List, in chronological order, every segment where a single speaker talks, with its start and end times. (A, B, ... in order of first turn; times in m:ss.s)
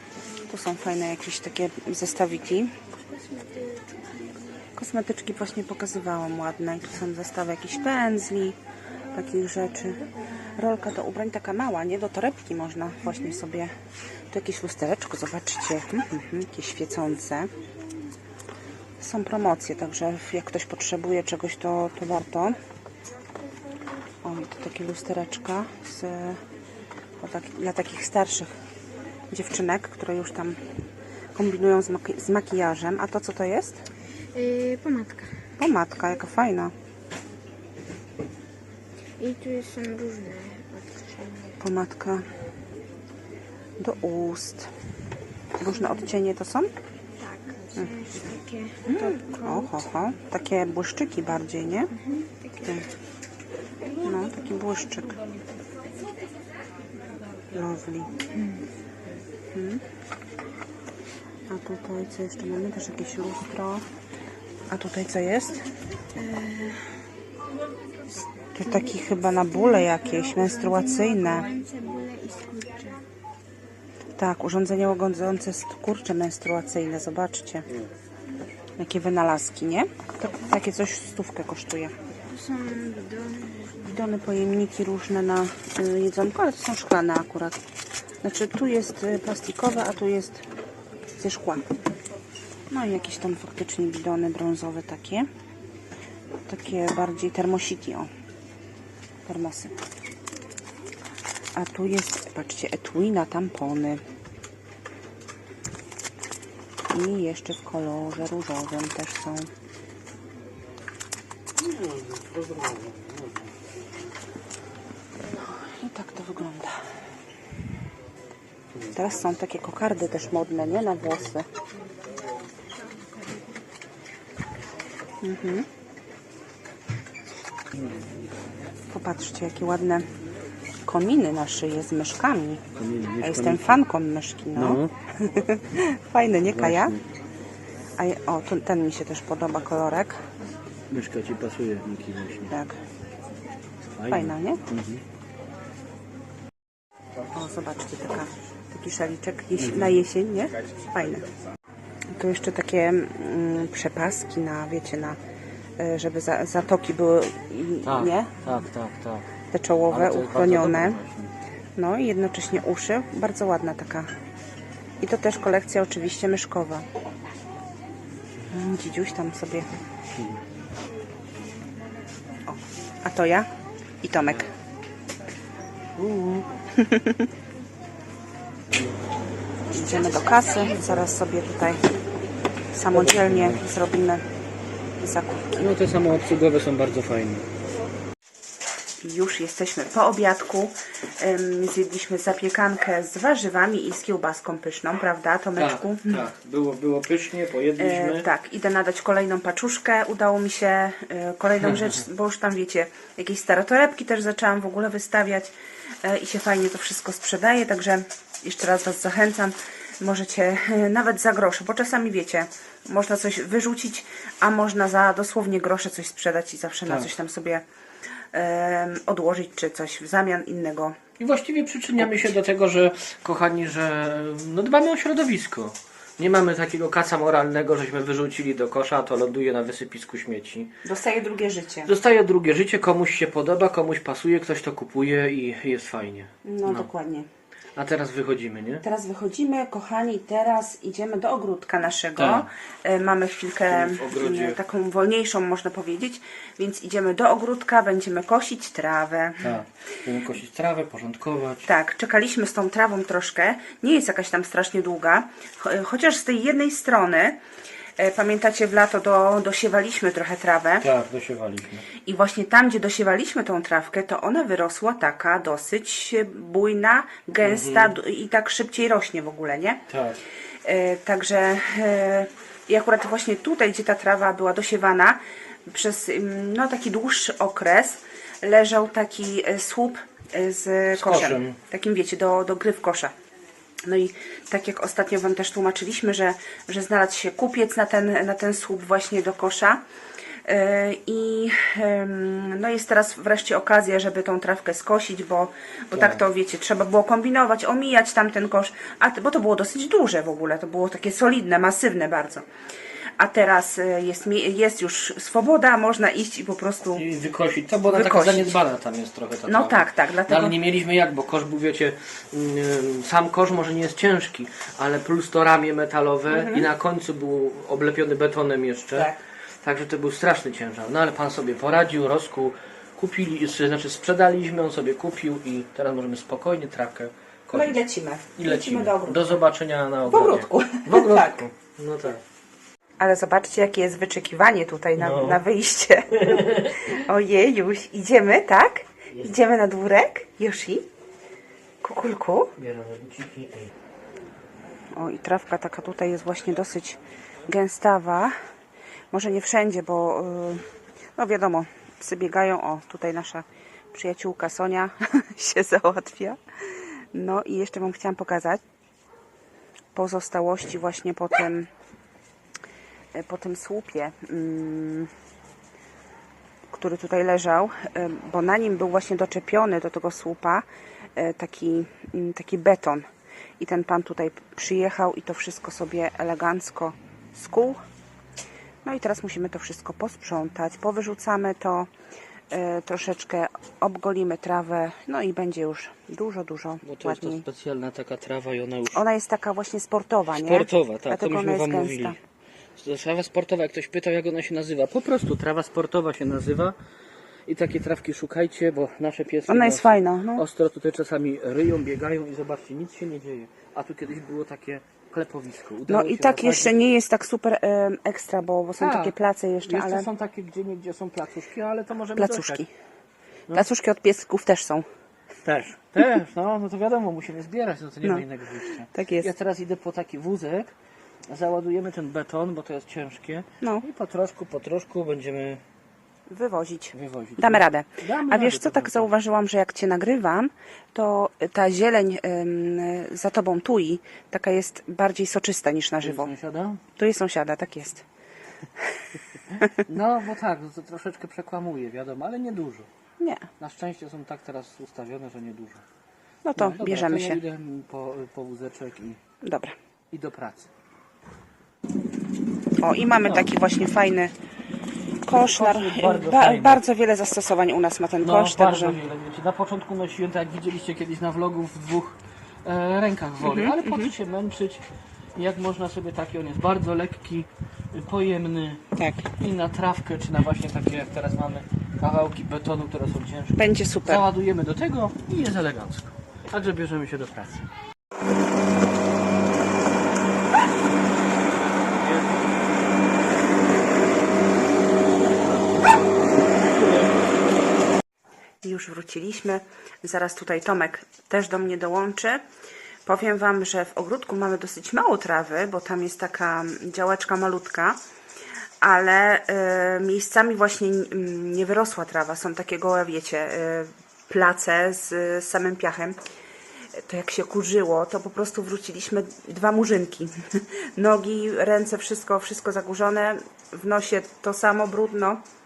0:00.5-0:02.8 A
0:02.9-0:04.6 B
0:04.8-0:08.6 A
0:09.1-0:13.7 A
0:14.3-0:17.5 A
0:19.0-0:22.6 A
0:24.2-0:26.4 A
0:27.2-0:28.5 A
0:29.3-0:30.6 A
0:31.4-0:33.8 A
0:34.3-0:35.4 B
0:35.6-0:36.7 A
0:39.2-0:41.6 B
0:41.6-0:42.3 A
0:43.8-0:44.7 A
0:45.6-0:46.7 A
0:45.7-0:46.1 B
0:47.2-0:49.9 B
0:48.9-0:51.9 A
0:52.0-0:52.8 B
0:54.0-0:55.2 A
0:57.5-0:58.1 A
0:58.3-0:58.6 B
0:59.5-0:59.8 A
1:01.5-1:03.9 A
1:04.7-1:05.6 A
1:06.2-1:06.8 B
1:08.6-1:11.5 A
1:08.7-1:13.0 B
1:14.2-1:17.7 A
1:18.8-1:21.9 A
1:22.3-1:23.8 B
1:23.8-1:27.6 A
1:28.2-1:30.4 A
1:31.2-1:31.6 A
1:32.7-1:35.3 A
1:36.5-1:38.1 A
1:39.3-1:39.8 A
1:41.6-1:44.0 A
1:46.9-1:49.5 A
1:51.6-1:53.6 C
1:55.6-1:56.8 A
1:58.9-2:01.5 A
2:05.2-2:05.7 A
2:07.7-2:08.0 C
2:08.9-2:10.1 A
2:10.8-2:12.6 A
2:12.8-2:13.8 C
2:13.2-2:17.0 A
2:14.6-2:14.9 C
2:16.4-2:17.0 C
2:18.0-2:20.2 A
2:20.9-2:22.6 C
2:22.5-2:22.8 A
2:23.8-2:25.0 C
2:24.1-2:24.6 A
2:27.3-2:31.2 A
2:29.6-2:30.0 C
2:32.1-2:35.2 A
2:35.8-2:38.4 A
2:37.8-2:39.2 C
2:39.5-2:41.0 A
2:39.9-2:41.3 C
2:41.8-2:44.1 A
2:45.0-2:46.9 A
2:48.5-2:49.7 A
2:50.2-2:50.4 C
2:52.5-2:53.5 A
2:54.0-2:54.5 A
2:56.0-2:56.5 C
2:56.8-2:57.3 A
2:58.7-2:59.0 C
2:59.7-3:01.9 A
3:02.7-3:04.2 A
3:02.9-3:03.7 C
3:05.0-3:05.7 A
3:05.6-3:07.5 C
3:09.0-3:16.2 A
3:15.6-3:18.3 C
3:17.8-3:37.6 A
3:21.7-3:22.0 C
3:38.3-3:41.0 A
3:41.2-3:50.7 C
3:42.0-3:42.3 A
3:50.8-3:51.9 A
3:51.9-3:56.9 C
3:56.4-3:57.3 A
3:57.8-3:58.8 C
3:58.8-4:09.6 A
4:02.2-4:02.5 C
4:03.7-4:04.6 C
4:09.4-4:11.7 C
4:11.7-4:17.4 A
4:18.0-4:20.9 A
4:20.8-4:21.9 C
4:22.0-4:29.9 A
4:27.4-4:28.0 C
4:29.9-4:30.2 C
4:30.6-4:43.1 A
4:40.9-4:41.6 C
4:43.8-4:49.8 A
4:50.4-5:02.4 A
4:55.9-4:56.2 C
5:03.2-5:07.0 A
5:07.0-5:19.1 C
5:07.9-5:08.6 A
5:09.5-5:10.6 A
5:16.3-5:16.7 A
5:18.9-5:19.2 A
5:19.6-5:27.8 C
5:27.5-5:29.4 A
5:28.4-5:32.2 C
5:30.1-5:31.4 A
5:33.0-5:40.9 A
5:35.0-5:35.4 C
5:36.1-5:37.0 C
5:41.8-5:42.6 A
5:42.6-5:43.7 C
5:44.9-5:48.4 A
5:49.1-5:56.4 A
5:57.1-5:58.6 A
6:00.0-6:01.7 A
6:03.1-6:05.1 A
6:06.7-6:13.1 A
6:13.6-6:17.8 A
6:18.8-6:21.9 A
6:22.5-6:27.4 A
6:26.8-6:29.0 C
6:28.9-6:32.2 A
6:30.3-6:32.2 C
6:32.8-6:36.8 C
6:37.5-6:46.8 C
6:39.5-6:40.4 A
6:45.9-6:50.1 A
6:48.8-6:49.2 C
6:49.7-6:52.6 C
6:52.2-6:52.7 A
6:53.5-6:54.9 A
6:55.4-7:00.8 C
6:58.9-6:59.3 A
7:01.3-7:05.6 C
7:03.6-7:03.9 A
7:06.3-7:16.3 A
7:06.9-7:09.1 C
7:16.0-7:16.8 C
7:17.0-7:18.0 A
7:19.5-7:22.9 C
7:23.2-7:23.5 A
7:23.6-7:25.8 C
7:26.4-7:27.4 A
7:26.6-7:29.2 C
7:29.4-7:29.8 A
7:30.1-7:30.7 C
7:32.8-7:34.3 A
7:35.2-7:39.0 A
7:35.4-7:36.8 C
7:38.2-7:57.7 C
7:43.4-7:44.1 A
7:49.0-7:49.3 A
7:53.6-7:54.2 A
8:01.8-8:02.6 C
8:05.2-8:06.0 C
8:06.5-8:07.1 C
8:08.6-8:12.4 A
8:13.1-8:18.0 A
8:18.8-8:26.2 A
8:27.0-8:35.4 A